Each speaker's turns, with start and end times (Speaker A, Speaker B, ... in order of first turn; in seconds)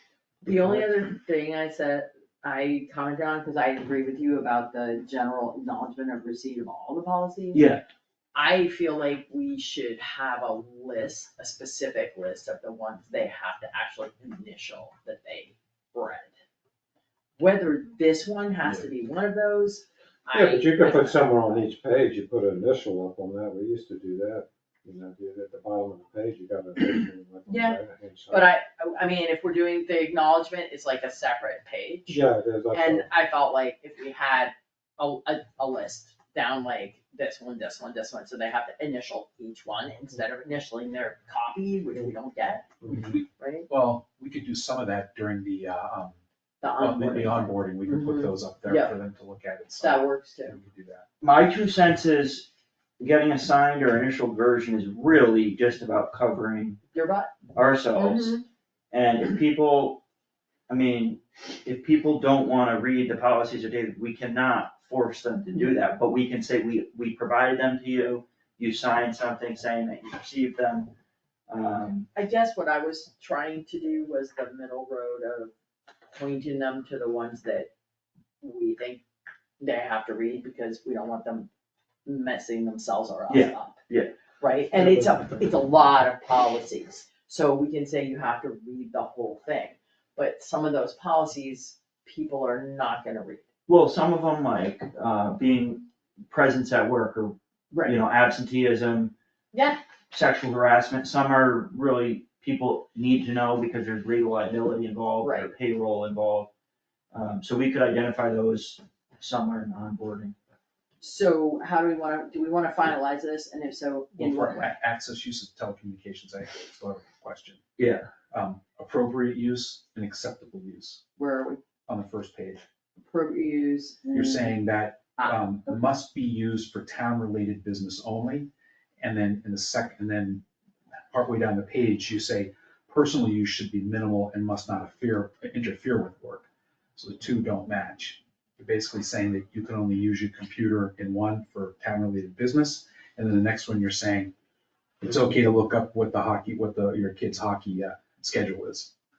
Speaker A: 0.4-7.7, 8.3-16.3, 17.4-21.7, 27.5-27.8, 28.3-42.8, 43.4-43.7, 46.6-49.0, 49.8-50.6, 56.9-57.3, 58.0-58.4, 72.1-75.5, 76.1-77.7, 78.4-79.0, 79.6-81.5, 82.0-83.8, 84.4-93.5, 97.7-98.0, 99.5-99.8, 105.2-105.5, 111.0-114.8, 121.2-121.6, 123.0-124.6, 125.2-125.8
Speaker B: 7.5-7.8, 51.2-56.8, 57.5-58.4, 58.9-60.0, 60.7-70.9, 71.5-72.1, 83.3-84.2, 93.7-99.1, 100.1-106.5, 107.1-110.3, 117.8-118.1
Speaker C: 20.3-28.5, 32.1-33.1
Speaker D: 42.9-46.2, 46.8-51.0, 114.2-117.6, 118.3-121.0, 121.9-122.6, 124.1-130.4, 131.1-144.3, 145.0-148.9